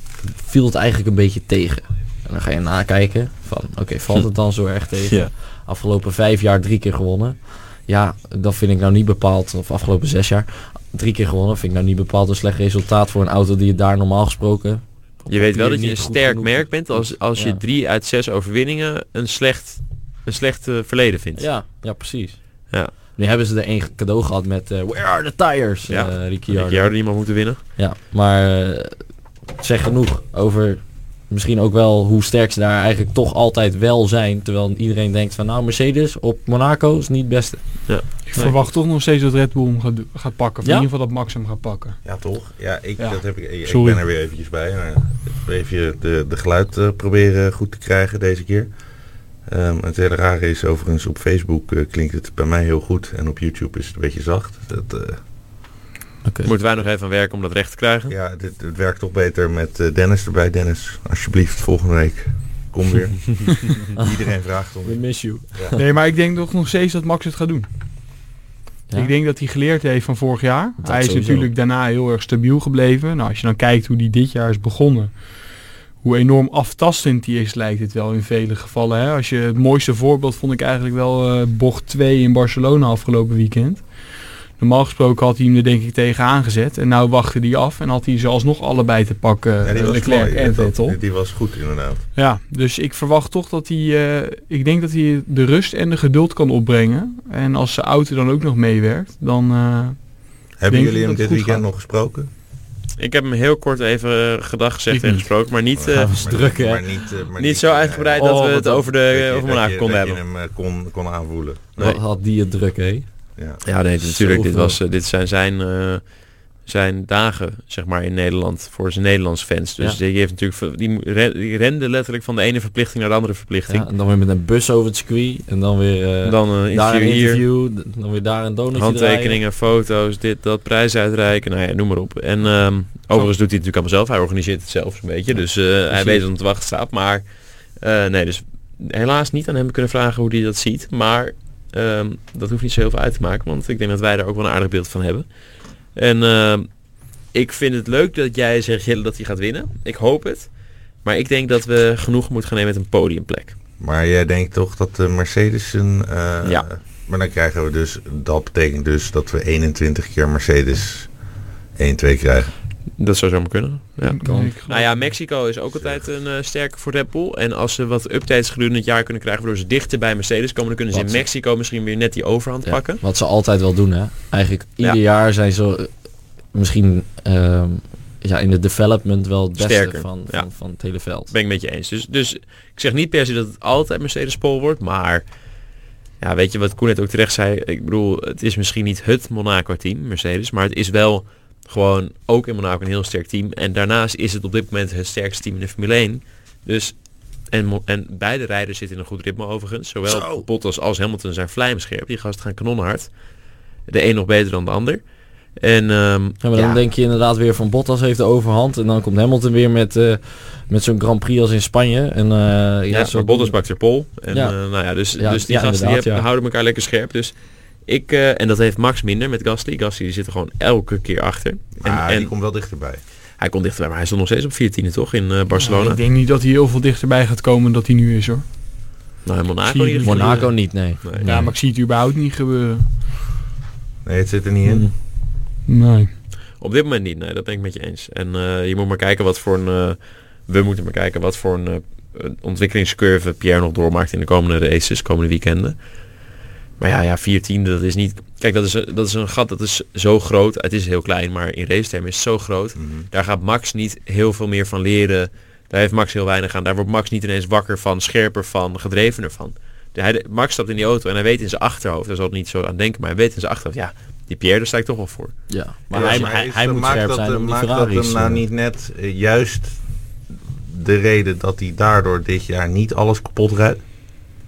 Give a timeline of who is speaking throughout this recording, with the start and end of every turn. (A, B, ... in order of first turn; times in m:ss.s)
0:00.2-0:17.6 A
0:15.3-0:21.4 B
0:21.4-0:22.4 A
0:23.2-0:26.9 A
0:25.9-0:27.6 B
0:27.8-0:29.0 A
0:29.6-0:37.6 A
0:37.9-0:38.6 B
0:38.3-0:42.0 C
0:42.0-0:48.7 D
0:43.0-0:44.0 C
0:49.5-0:55.2 D
0:56.2-0:56.5 A
0:56.4-0:58.1 B
0:58.1-1:05.0 D
1:04.8-1:05.8 A
1:05.7-1:07.7 C
1:08.9-1:15.2 C
1:10.8-1:11.5 A
1:16.0-1:23.9 C
1:24.6-1:31.0 C
1:29.6-1:32.0 D
1:32.2-1:40.0 C
1:40.6-1:42.3 D
1:40.7-1:41.6 C
1:43.0-1:46.1 B
1:44.9-1:45.3 C
1:45.7-1:48.2 D
1:45.9-1:46.8 A
1:47.4-1:50.2 B
1:48.2-1:48.9 A
1:49.0-1:52.0 D
1:51.8-1:53.0 A
1:53.6-1:56.0 B
1:54.0-1:54.8 A
1:56.6-2:03.9 B
2:03.7-2:09.4 A
2:06.2-2:07.4 B
2:08.7-2:17.2 B
2:15.9-2:16.2 A
2:17.8-2:25.2 B
2:25.9-2:26.7 B
2:27.3-2:30.5 B
2:31.0-2:33.5 B
2:33.8-2:41.1 D
2:41.8-2:42.5 D
2:43.0-2:53.0 B
2:44.0-2:45.0 C
2:44.2-2:44.5 A
2:45.7-2:46.0 D
2:50.9-2:51.2 A
2:52.6-2:55.9 A
2:56.5-3:01.3 A
2:59.6-3:00.5 B
3:01.3-3:05.2 B
3:06.2-3:16.9 B
3:17.5-3:23.1 B
3:20.1-3:20.4 A
3:23.9-3:25.0 B
3:25.6-3:26.8 B
3:26.4-3:33.6 A
3:32.9-3:37.3 B
3:34.3-3:34.6 A
3:35.1-3:36.2 A
3:37.8-3:42.3 B
3:41.8-3:43.0 D
3:43.4-3:46.0 B
3:45.6-3:48.4 C
3:49.2-3:51.3 B
3:49.6-3:50.5 C
3:50.0-3:51.5 A
3:51.2-3:52.9 C
3:54.0-3:54.9 D
3:54.6-3:54.9 A
3:55.7-3:56.1 C
3:56.6-4:05.8 B
4:06.8-4:25.3 B
4:12.8-4:13.1 D
4:25.5-4:28.4 A
4:25.9-4:26.3 B
4:25.9-4:29.8 D
4:30.3-4:33.8 D